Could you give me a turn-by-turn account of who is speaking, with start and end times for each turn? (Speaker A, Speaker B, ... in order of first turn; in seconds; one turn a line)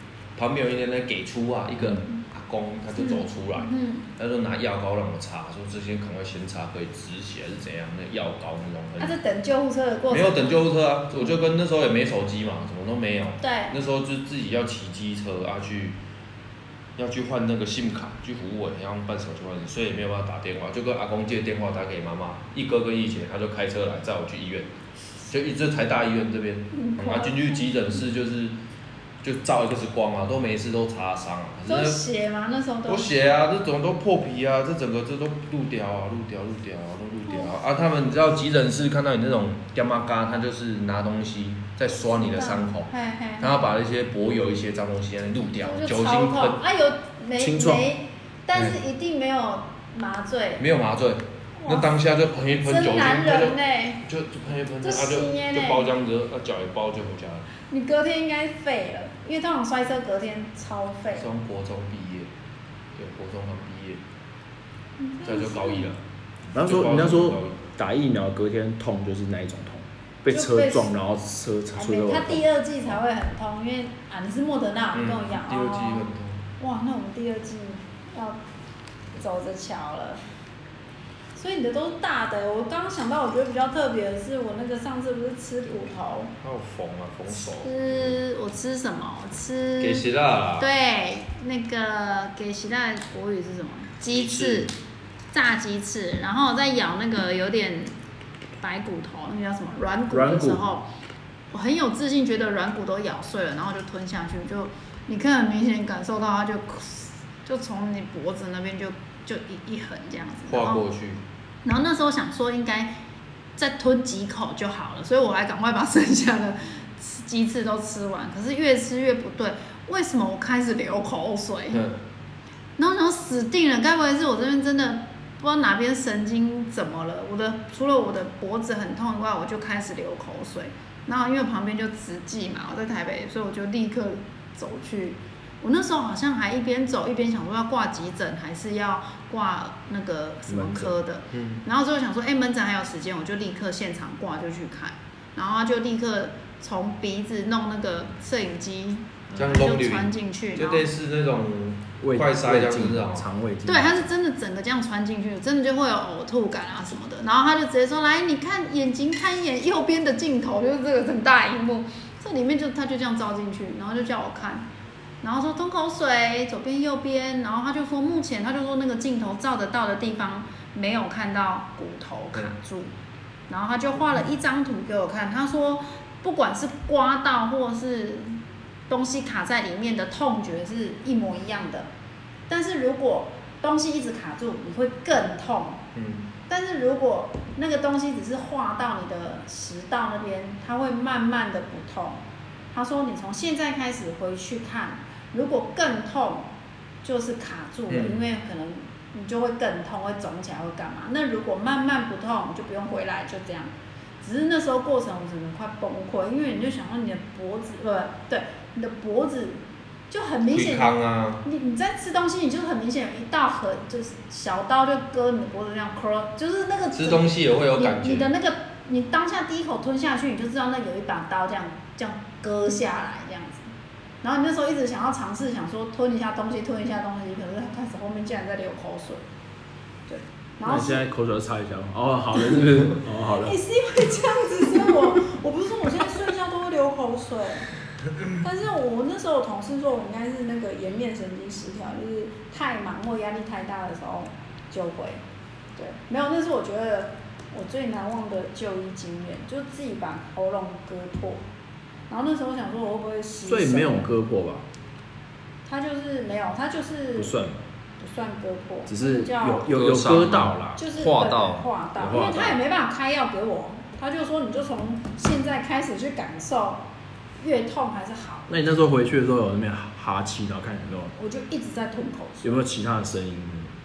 Speaker A: 0.3-9.2
Speaker B: 3.0-4.1
Speaker B: 9.0-10.6
Speaker A: 10.1-16.0
Speaker B: 13.4-13.8
Speaker A: 17.0-24.7
Speaker A: 25.3-28.6
Speaker B: 26.7-27.8
Speaker A: 29.2-32.0
Speaker B: 31.6-33.1
Speaker A: 32.9-46.6
Speaker B: 37.2-37.5
Speaker B: 42.0-43.5
Speaker B: 45.6-50.6
Speaker C: 47.4-47.9
Speaker A: 50.6-57.5
Speaker B: 51.6-51.9
Speaker B: 52.6-54.0
Speaker B: 54.8-55.9
Speaker B: 57.7-61.3
Speaker A: 61.1-62.3
Speaker A: 63.0-64.0
Speaker B: 65.0-65.9
Speaker A: 65.2-66.0
Speaker A: 66.5-67.6
Speaker C: 66.5-72.4
Speaker B: 70.3-70.9
Speaker B: 71.8-76.1
Speaker A: 74.9-76.4
Speaker B: 76.6-78.4
Speaker B: 79.2-80.2
Speaker B: 81.3-86.3
Speaker A: 86.4-88.2
Speaker B: 87.3-90.0
Speaker A: 89.8-90.7
Speaker B: 90.6-94.7
Speaker A: 94.1-94.7
Speaker B: 95.3-98.0
Speaker B: 98.6-100.9
Speaker C: 100.1-100.6
Speaker B: 101.5-110.8
Speaker A: 110.5-111.2
Speaker B: 111.6-112.9
Speaker B: 113.6-121.8
Speaker B: 122.8-150.9
Speaker C: 140.5-140.9
Speaker A: 141.3-141.6
Speaker A: 149.3-153.2
Speaker C: 152.0-154.1
Speaker B: 153.7-164.7
Speaker B: 165.2-172.9
Speaker B: 173.5-181.9
Speaker B: 182.5-185.8
Speaker A: 185.9-186.3
Speaker B: 186.5-192.2
Speaker B: 192.7-196.5
Speaker B: 197.0-223.7
Speaker A: 197.9-198.2
Speaker A: 210.5-211.4
Speaker A: 216.9-218.3
Speaker B: 224.2-229.2
Speaker B: 230.1-231.1
Speaker C: 230.6-233.6
Speaker B: 233.2-237.7
Speaker B: 238.4-245.2
Speaker B: 245.8-251.4
Speaker B: 252.1-254.1
Speaker C: 253.4-254.6
Speaker B: 255.7-257.4
Speaker C: 257.2-257.6
Speaker B: 258.0-259.7
Speaker C: 258.9-260.8
Speaker A: 259.7-261.7
Speaker B: 260.8-266.8
Speaker C: 262.0-262.6
Speaker B: 267.4-268.5
Speaker C: 268.5-271.1
Speaker B: 271.1-272.6
Speaker C: 272.4-273.7